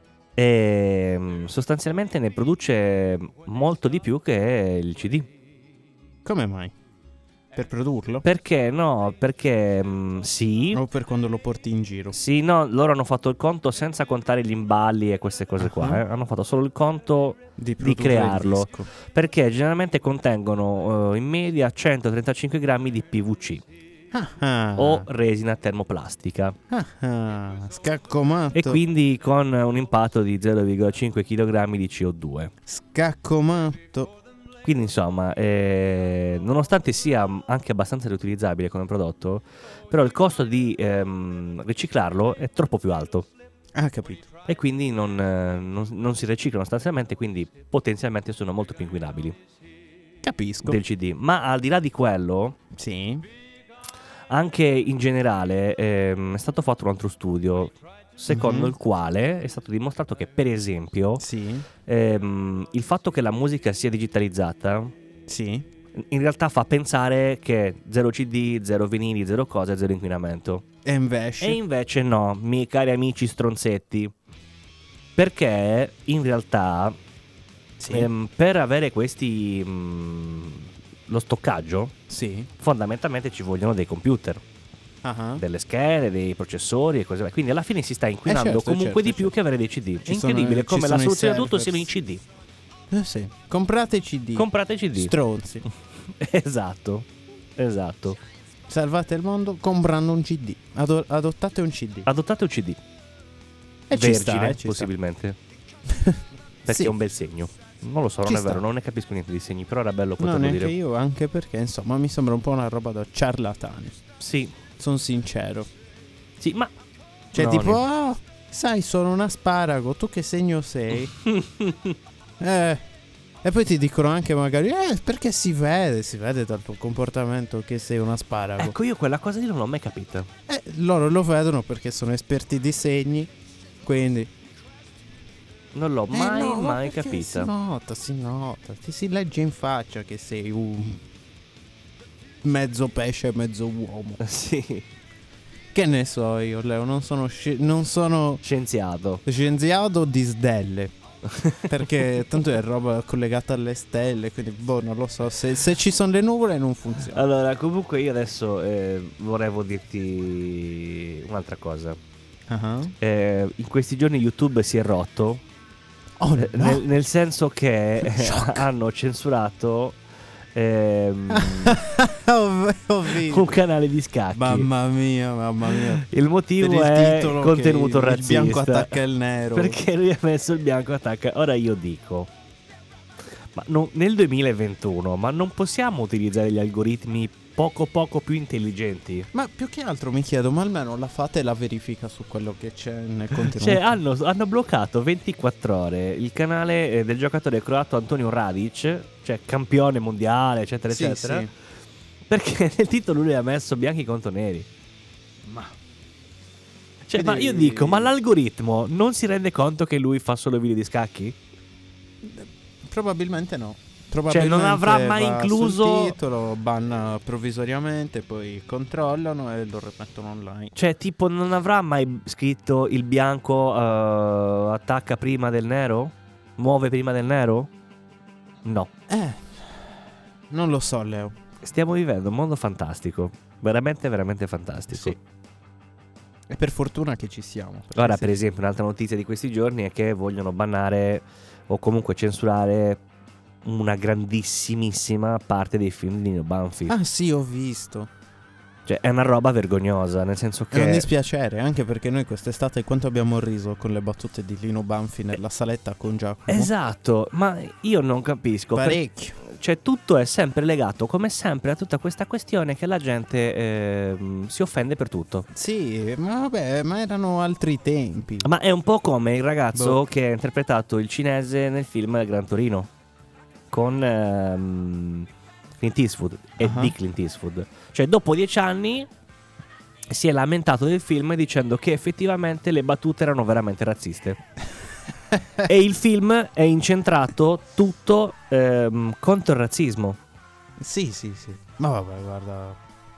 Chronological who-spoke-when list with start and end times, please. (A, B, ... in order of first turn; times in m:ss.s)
0:00.4-0:05.3 A
0:06.2-0:06.7 B
0:07.5-0:08.2 B
0:08.2-0:10.8 A
0:10.7-0:12.2 B
0:12.1-0:23.6 A
0:15.6-0:16.0 B
0:17.6-0:18.9 B
0:24.1-0:25.1 B
0:24.8-0:26.6 A
0:26.7-0:28.8 B
0:28.5-0:32.5 A
0:32.6-0:34.1 B
0:34.6-0:43.3 A
0:43.7-0:44.3 B
0:44.4-0:49.4 A
0:50.2-0:50.8 B
0:50.6-0:52.6 A
0:52.7-0:53.2 B
0:54.3-1:01.2 A
0:58.3-0:58.7 B
1:01.2-1:01.7 B
1:01.8-1:04.9 A
1:05.3-1:05.6 B
1:05.9-1:10.6 A
1:10.8-1:11.6 B
1:11.4-1:14.1 A
1:15.2-1:17.0 A
1:17.8-1:18.1 B
1:17.9-1:21.9 A
1:22.1-1:22.5 B
1:22.6-1:24.4 A
1:25.0-1:25.4 B
1:25.4-1:32.2 A
1:28.2-1:29.3 B
1:30.0-1:31.9 B
1:32.9-1:35.6 B
1:34.4-1:35.1 A
1:36.1-1:38.2 A
1:38.7-1:42.1 B
1:42.0-1:42.8 A
1:43.9-1:44.9 B
1:43.9-1:45.4 A
1:45.9-1:46.9 B
1:46.6-1:50.7 A
1:48.2-1:48.6 B
1:50.2-1:54.0 B
1:54.2-1:54.5 A
1:54.8-1:55.7 B
1:56.4-1:56.7 A
1:57.3-1:57.8 A
1:57.3-2:01.1 B
2:01.2-2:02.0 A
2:02.4-2:02.8 B
2:03.4-2:08.7 B
2:08.6-2:10.3 A
2:10.5-2:13.3 B
2:13.8-2:14.3 B
2:15.7-2:17.5 A
2:16.1-2:21.0 B
2:22.4-2:24.2 B
2:24.2-2:24.8 A
2:25.7-2:28.4 B
2:28.4-2:29.2 A
2:29.2-2:30.9 B
2:31.3-2:31.7 A
2:31.6-2:37.2 B
2:37.1-2:42.0 A
2:42.5-2:42.9 B
2:43.0-2:45.4 A
2:46.2-2:46.8 B
2:46.4-2:50.0 A
2:48.0-2:48.7 B
2:50.5-2:51.8 A
2:51.3-2:53.6 B
2:53.1-2:54.7 A
2:54.3-2:56.0 B
2:55.9-2:59.0 A
2:56.6-2:59.8 B
2:59.5-3:02.3 A
3:03.5-3:09.3 A
3:09.3-3:14.0 B
3:13.3-3:21.5 A
3:20.9-3:21.5 B
3:22.3-3:24.7 A
3:25.4-3:25.7 B
3:27.0-3:31.4 A
3:27.1-3:28.1 B
3:32.2-3:40.7 B
3:34.3-3:36.2 A
3:40.7-3:47.7 A
3:48.6-3:48.9 A
3:49.1-3:49.8 B
3:50.5-3:51.4 B
3:51.6-3:55.2 A
3:54.9-3:55.2 B
3:56.5-3:58.4 B
3:57.9-4:03.0 A
4:03.6-4:06.9 A
4:06.9-4:08.1 B
4:08.8-4:11.1 A
4:10.7-4:16.7 B
4:16.5-4:25.5 A
4:18.7-4:19.4 B
4:25.5-4:28.5 B
4:28.4-4:32.9 A
4:29.7-4:30.0 B
4:33.7-4:35.3 A
4:35.8-4:39.1 A
4:36.6-4:36.9 B
4:40.1-4:44.4 A
4:45.3-4:45.6 B
4:45.6-4:50.2 A
4:50.8-4:52.8 B